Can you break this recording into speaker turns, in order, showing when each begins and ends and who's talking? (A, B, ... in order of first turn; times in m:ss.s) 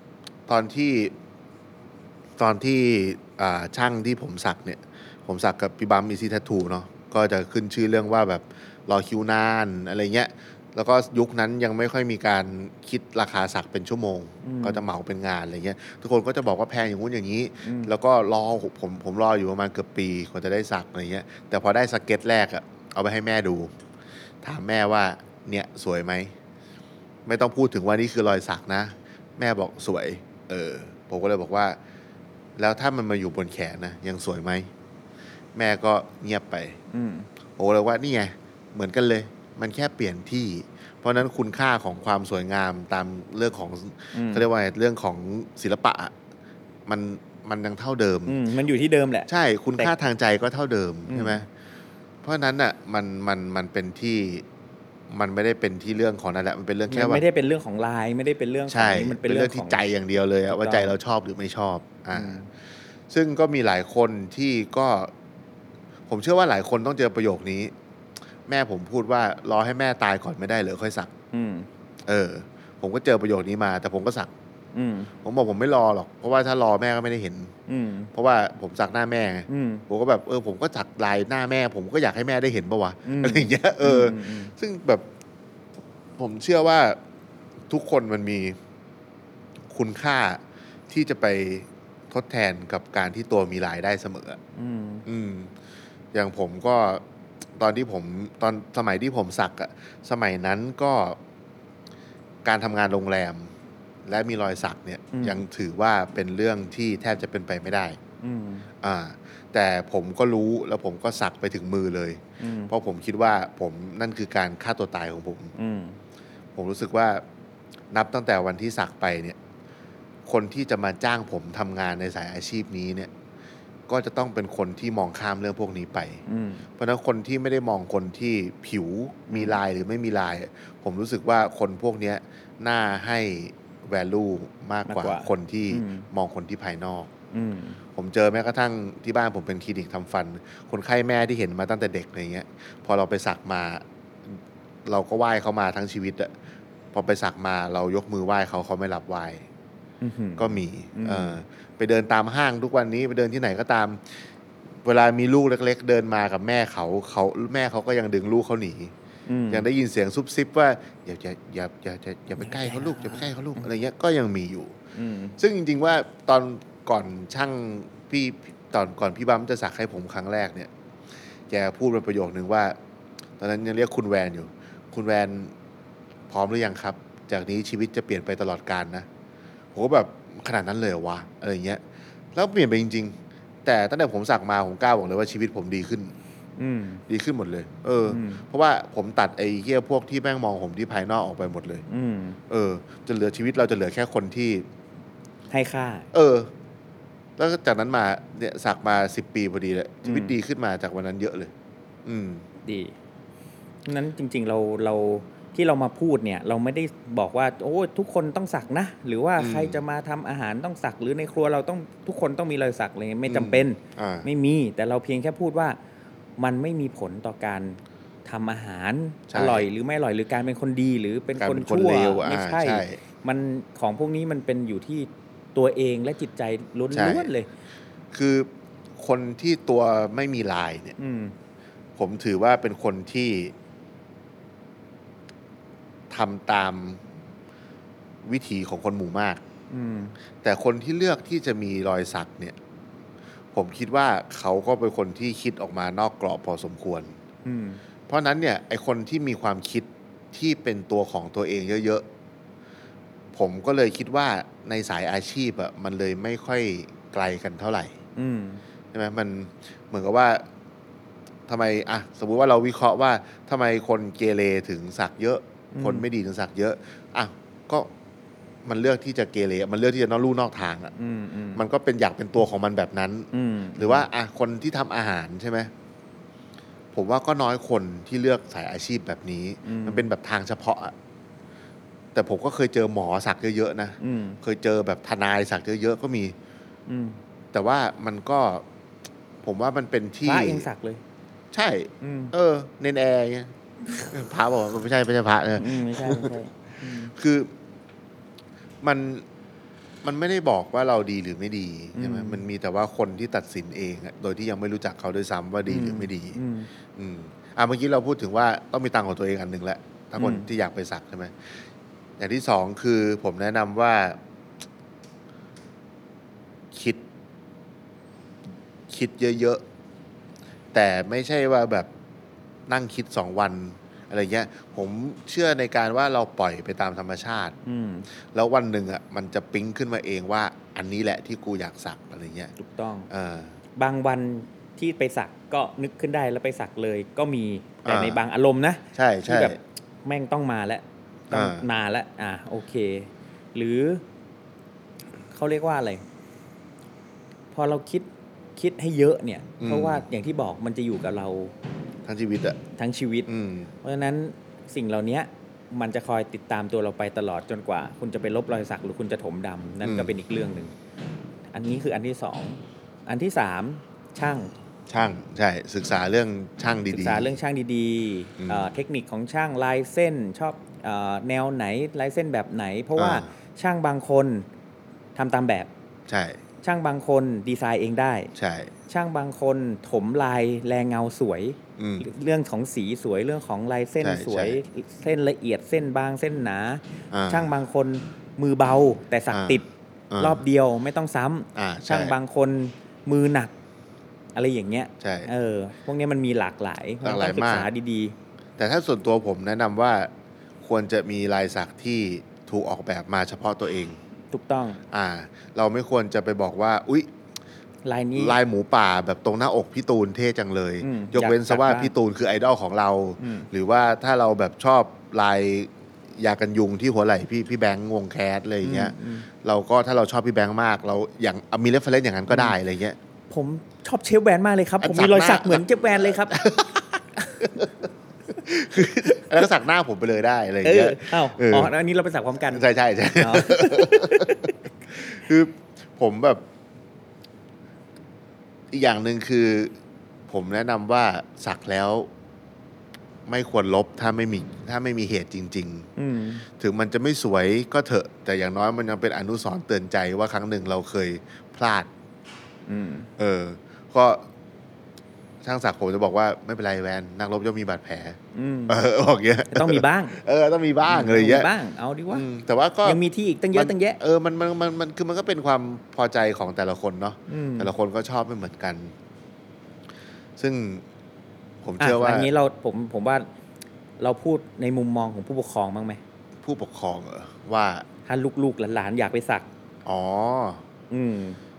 0:00.5-0:01.1 A
0:02.4-0:23.7 A
0:14.4-0:14.8 B
0:17.6-0:17.9 B
0:24.4-0:26.3 A
0:27.3-0:31.8 A
0:32.6-0:34.7 A
0:35.6-0:36.8 A
0:36.9-0:37.3 B
0:37.6-0:46.1 A
0:44.1-0:44.5 B
0:46.9-0:48.4 A
0:48.3-0:49.9 B
0:49.3-0:51.5 A
0:51.1-0:51.4 B
0:52.2-0:54.4 A
0:55.1-0:57.2 A
0:56.9-0:59.8 B
0:58.7-1:02.4 A
1:00.5-1:01.0 B
1:02.1-1:02.5 B
1:03.1-1:05.1 A
1:06.1-1:07.7 A
1:08.5-1:11.1 A
1:11.3-1:11.7 B
1:12.1-1:14.3 A
1:14.7-1:15.1 B
1:15.2-1:17.5 A
1:17.7-1:18.1 B
1:18.1-1:25.0 A
1:19.5-1:19.8 B
1:23.1-1:24.5 B
1:26.2-1:27.0 A
1:27.7-1:28.6 A
1:29.7-1:34.4 A
1:34.6-1:35.0 B
1:35.1-1:35.5 A
1:36.1-1:37.0 A
1:37.6-1:41.2 A
1:42.4-1:43.5 A
1:44.1-1:48.0 A
1:45.1-1:45.4 B
1:48.2-1:48.7 B
1:48.8-1:55.5 A
1:52.4-1:52.7 B
1:55.6-1:56.0 B
1:56.6-1:57.2 A
1:57.9-1:59.4 A
2:00.3-2:03.1 A
2:03.9-2:06.2 A
2:06.3-2:06.7 B
2:06.8-2:17.1 A
2:09.3-2:09.6 B
2:14.9-2:16.1 B
2:17.3-2:17.8 B
2:18.0-2:26.3 A
2:26.9-2:29.5 A
2:30.0-2:31.4 B
2:30.4-2:34.1 A
2:34.8-2:38.9 A
2:39.3-2:39.7 B
2:39.5-2:44.7 A
2:42.4-2:43.6 B
2:44.9-2:45.4 B
2:45.4-2:50.7 A
2:51.5-2:52.8 A
2:53.4-2:55.5 A
2:56.3-2:59.1 A
2:59.7-3:01.8 A
3:02.4-3:06.1 A
3:06.6-3:07.0 B
3:07.1-3:11.8 A
3:08.1-3:08.4 B
3:11.9-3:12.4 B
3:12.5-3:14.7 A
3:15.5-3:16.1 B
3:16.1-3:16.5 A
3:17.4-3:21.5 A
3:20.0-3:20.4 B
3:22.0-3:22.5 A
3:22.6-3:22.9 B
3:23.9-3:35.8 B
3:29.4-3:29.8 A
3:33.3-3:34.3 A
3:36.4-3:47.5 B
3:39.3-3:39.7 A
3:41.4-3:43.0 A
3:46.9-3:47.3 A
3:48.1-3:51.0 A
3:51.0-3:51.3 B
3:52.0-3:53.5 A
3:56.1-3:57.0 A
3:58.2-3:59.4 A
3:59.7-4:00.2 B
4:00.4-4:02.6 A
4:03.5-4:07.2 A
4:07.4-4:07.8 B
4:08.1-4:12.0 A
4:13.3-4:17.9 A
4:18.2-4:18.6 B
4:18.9-4:20.4 A
4:21.5-4:27.9 A
4:25.7-4:26.1 B
4:28.6-4:30.9 A
4:31.0-4:31.6 B
4:31.6-4:35.7 A
4:33.3-4:34.1 B
4:36.9-4:40.9 A
4:39.6-4:40.1 B
4:42.1-4:46.4 A
4:44.0-4:44.4 B
4:46.9-4:47.2 B
4:47.5-4:48.6 A
4:49.4-4:50.7 A
4:50.2-4:51.0 B
4:51.5-4:53.5 A
4:52.0-4:52.3 B
4:54.1-4:56.4 A
4:55.6-4:57.1 B
4:57.1-4:57.5 A
4:58.8-4:59.2 A
5:00.0-5:06.4 A
5:02.0-5:02.4 B
5:05.7-5:06.7 B
5:07.0-5:11.6 A
5:10.2-5:10.5 B
5:12.2-5:14.2 A
5:16.7-5:17.0 A
5:18.9-5:19.6 A
5:20.7-5:21.9 A
5:22.7-5:27.6 A
5:27.6-5:28.1 B
5:28.3-5:32.5 A
5:32.6-5:33.1 B
5:33.1-5:33.5 A
5:33.8-5:44.0 B
5:37.8-5:38.2 A
5:39.0-5:39.6 A
5:41.3-5:41.7 A
5:45.3-5:46.0 B
5:47.5-5:51.5 B
5:49.6-5:50.0 A
5:52.0-5:52.6 A
5:52.8-5:53.3 B
5:53.3-5:53.7 A
5:53.8-6:00.7 B
5:59.8-6:00.1 A
6:01.5-6:04.5 B
6:04.9-6:07.3 A
6:06.9-6:14.5 B
6:08.4-6:08.7 A
6:13.0-6:13.3 A
6:15.2-6:15.7 B
6:16.1-6:16.4 A
6:16.6-6:18.3 B
6:18.4-6:18.7 A
6:18.9-6:29.7 B
6:21.8-6:22.1 A
6:24.0-6:24.6 A
6:27.1-6:27.5 A
6:29.3-6:30.4 A
6:30.2-6:33.5 B
6:31.6-6:32.2 A
6:34.4-6:38.2 B
6:35.0-6:35.3 A
6:37.0-6:37.7 A
6:38.6-6:40.1 A
6:40.6-6:44.0 A
6:44.3-6:44.8 B
6:44.9-6:47.1 A
6:47.8-6:48.4 B
6:48.2-7:03.0 A
6:50.8-6:51.9 B
6:53.2-6:53.5 B
6:58.6-6:59.3 B
7:02.3-7:02.5 B
7:03.3-7:06.4 B
7:04.8-7:07.7 A
7:07.2-7:07.6 B
7:08.4-7:11.7 A
7:09.0-7:09.4 B
7:10.6-7:12.6 B
7:12.5-7:16.4 A
7:13.2-7:14.6 B
7:18.7-7:19.7 A
7:20.3-7:22.1 A
7:23.3-7:25.9 A
7:26.0-7:26.4 B
7:26.6-7:31.9 A
7:32.7-7:33.1 B
7:33.2-7:34.2 A
7:35.4-7:38.2 A
7:38.3-7:38.8 B
7:38.7-7:41.5 A
7:39.5-7:40.2 B
7:40.9-7:42.3 B
7:42.1-7:43.0 A
7:42.8-7:44.0 B
7:43.5-7:48.9 A
7:47.3-7:47.7 B
7:50.4-7:50.8 A
7:51.6-7:52.3 A
7:51.8-7:53.3 B
7:54.0-7:56.0 B
7:56.4-7:57.8 A
7:58.1-7:59.5 B
7:59.8-8:00.6 A
8:00.9-8:01.4 B